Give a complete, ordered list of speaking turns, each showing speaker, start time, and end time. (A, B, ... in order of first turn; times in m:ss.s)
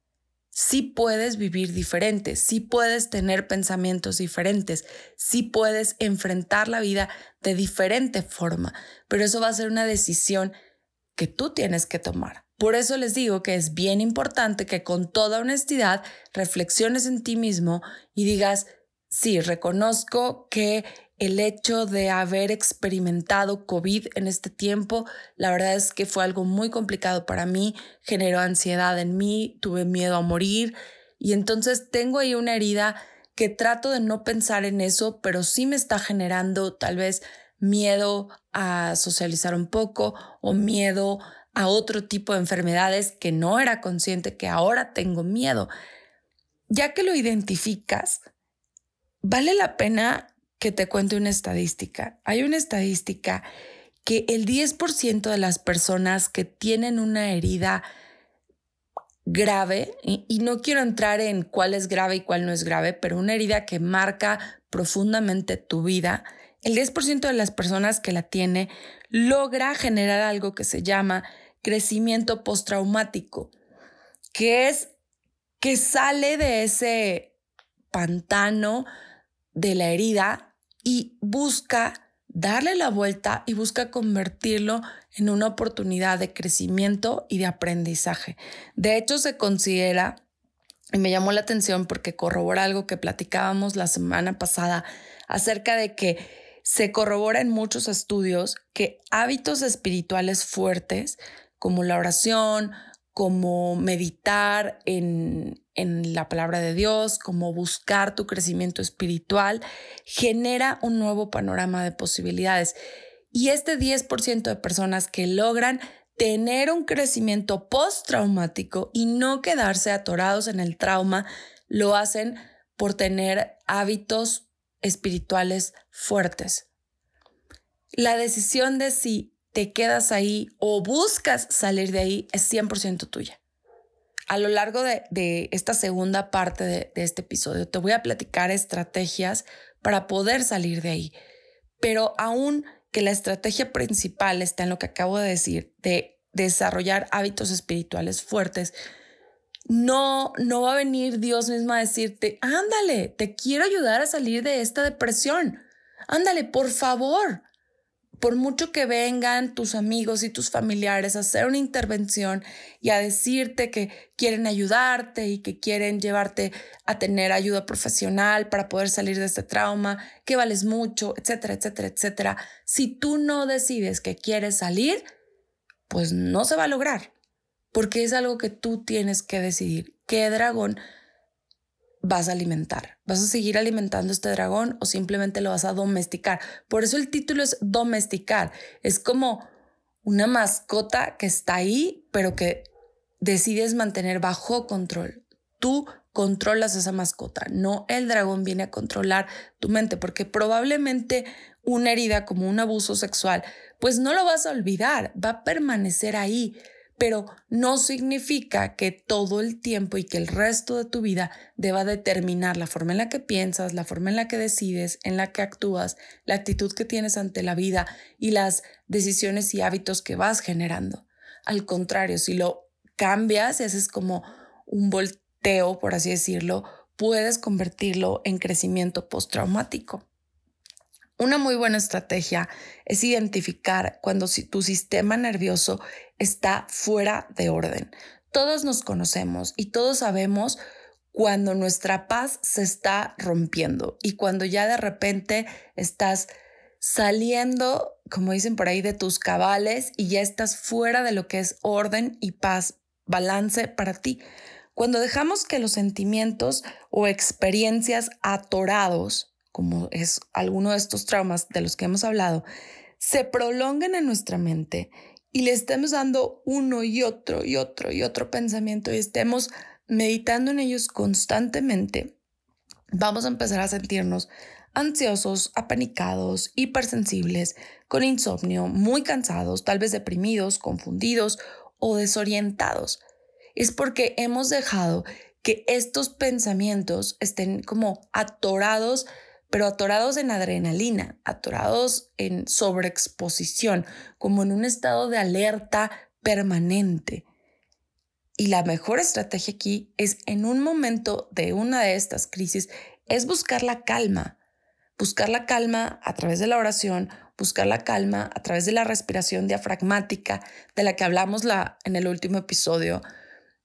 0:00.5-0:10.5 A
0:11.2-0:45.7 A
0:46.7-0:48.2 A
0:49.2-0:53.4 A
0:54.0-0:57.8 A
0:59.2-1:13.5 A
1:14.3-1:14.9 A
1:15.6-1:17.3 A
1:17.9-1:18.8 A
1:19.5-1:30.2 A
1:30.9-1:52.7 A
1:53.3-2:06.7 A
2:08.0-2:13.4 A
2:14.3-2:21.1 A
2:21.8-2:28.7 A
2:29.7-2:37.4 A
2:38.2-2:55.0 A
2:55.9-2:57.1 A
2:57.7-3:00.8 A
3:02.0-3:09.5 A
3:10.0-3:12.7 A
3:13.2-3:50.0 A
3:51.2-4:00.6 A
4:01.1-4:14.2 A
4:14.8-4:22.4 A
4:23.0-4:32.2 A
4:32.9-4:43.0 A
4:43.6-4:57.2 A
4:58.4-5:04.4 A
5:05.0-5:13.0 A